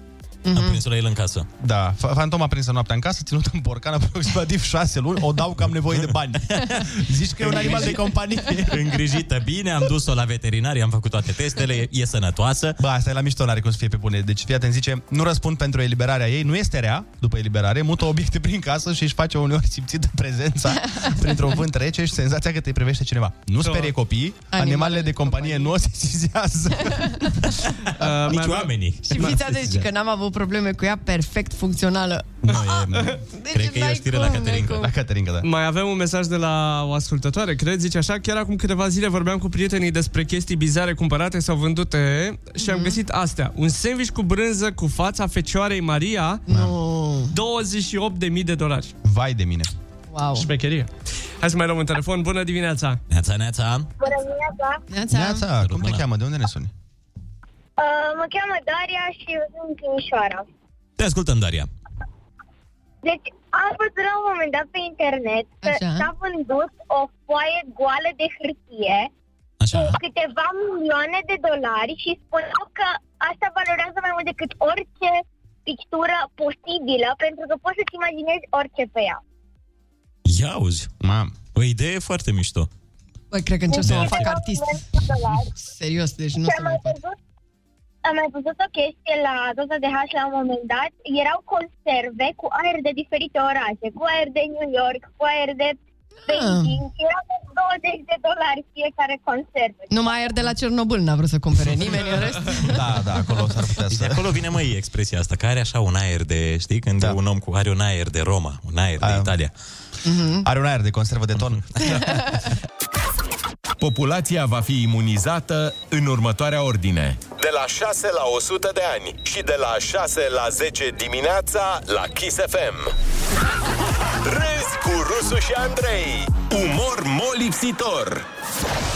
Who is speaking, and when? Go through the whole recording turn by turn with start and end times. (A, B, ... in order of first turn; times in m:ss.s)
0:00.5-0:00.8 A
0:00.5-0:01.5 B
0:01.6-0:08.8 C
0:06.1-0:06.9 B
0:07.4-0:08.0 B
0:08.7-0:12.8 B
0:12.8-0:27.3 C
0:20.8-0:21.1 A
0:23.6-0:23.9 D
0:24.5-0:25.7 A
0:28.0-0:29.6 D
0:28.3-0:29.4 B
0:29.0-0:34.9 A
0:32.4-0:33.2 C
0:33.5-0:34.9 B
0:34.7-0:35.5 C
0:35.4-0:46.4 D
0:42.6-0:43.0 A
0:46.5-0:46.7 C
0:46.5-0:47.3 A
0:47.3-0:48.9 D
0:49.0-0:49.7 C
0:50.1-0:50.5 A
0:50.3-0:53.0 D
0:53.1-0:53.9 B
0:54.0-0:54.8 E
0:54.9-0:55.4 A
0:55.1-0:56.7 C
0:55.6-0:56.0 B
0:57.8-1:00.4 E
1:01.0-1:01.7 B
1:03.0-1:09.1 E
1:05.6-1:06.1 A
1:09.6-1:10.0 B
1:09.7-1:19.2 E
1:20.2-1:20.9 B
1:21.0-1:21.3 C
1:21.5-1:22.7 B
1:23.3-1:24.8 A
1:23.7-1:25.5 E
1:25.6-1:27.0 A
1:26.4-1:27.1 E
1:28.0-1:40.4 E
1:36.3-1:36.8 A
1:39.9-1:42.8 A
1:42.6-1:44.2 C
1:43.9-1:49.5 B
1:49.0-1:49.3 C
1:50.0-1:50.4 A
1:50.4-1:52.2 C
1:52.0-1:52.2 A
1:53.8-1:57.2 F
1:57.3-2:02.9 G
2:04.2-2:08.2 G